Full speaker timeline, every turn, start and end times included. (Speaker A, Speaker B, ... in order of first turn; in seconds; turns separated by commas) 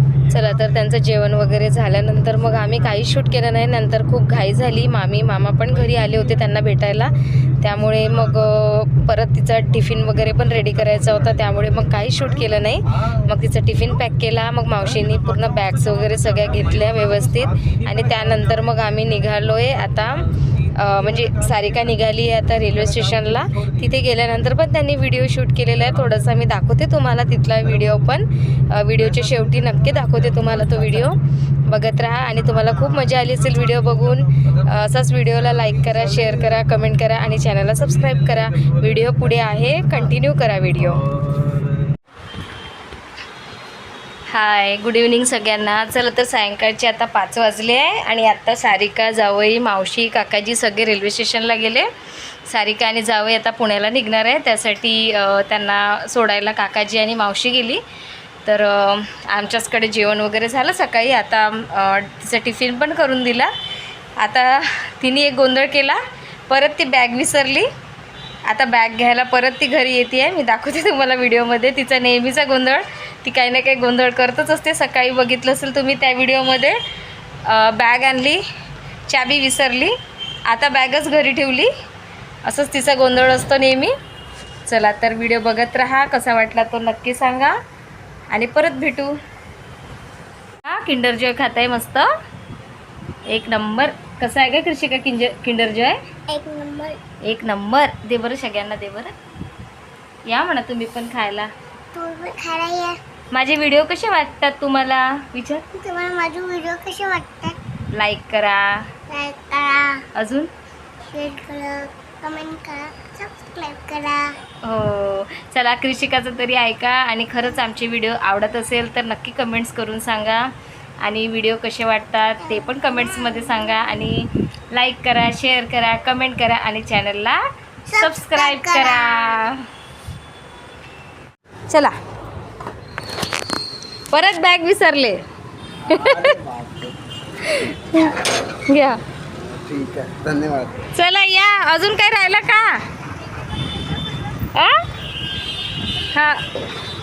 Speaker A: 0.3-41.0, Speaker A: 44.3-51.9, Speaker A: 52.5-57.8, Speaker A: 58.4-63.5, Speaker A: 64.2-67.7, Speaker A: 68.5-76.8, Speaker A: 77.4-78.4, Speaker A: 79.1-79.9, Speaker A: 80.5-81.7, Speaker A: 82.5-83.9, Speaker A: 84.6-87.5, Speaker A: 88.3-89.2, Speaker A: 90.7-92.1, Speaker A: 93.3-96.0, Speaker B: 96.3-97.0, Speaker A: 97.2-99.1, Speaker A: 100.3-101.5, Speaker B: 101.9-103.0, Speaker A: 103.3-105.6, Speaker B: 105.7-107.6, Speaker A: 107.9-108.8, Speaker B: 109.1-110.0, Speaker A: 110.2-110.5, Speaker B: 111.0-114.3, Speaker A: 114.6-120.5, Speaker A: 121.0-127.4, Speaker B: 122.4-123.8, Speaker B: 127.9-129.4, Speaker A: 128.0-129.6, Speaker A: 131.7-131.9, Speaker A: 134.1-135.2, Speaker C: 135.8-136.9, Speaker A: 135.9-136.4, Speaker A: 137.4-139.0, Speaker C: 139.4-140.9, Speaker A: 140.9-142.8, Speaker A: 144.4-144.8, Speaker A: 146.1-146.4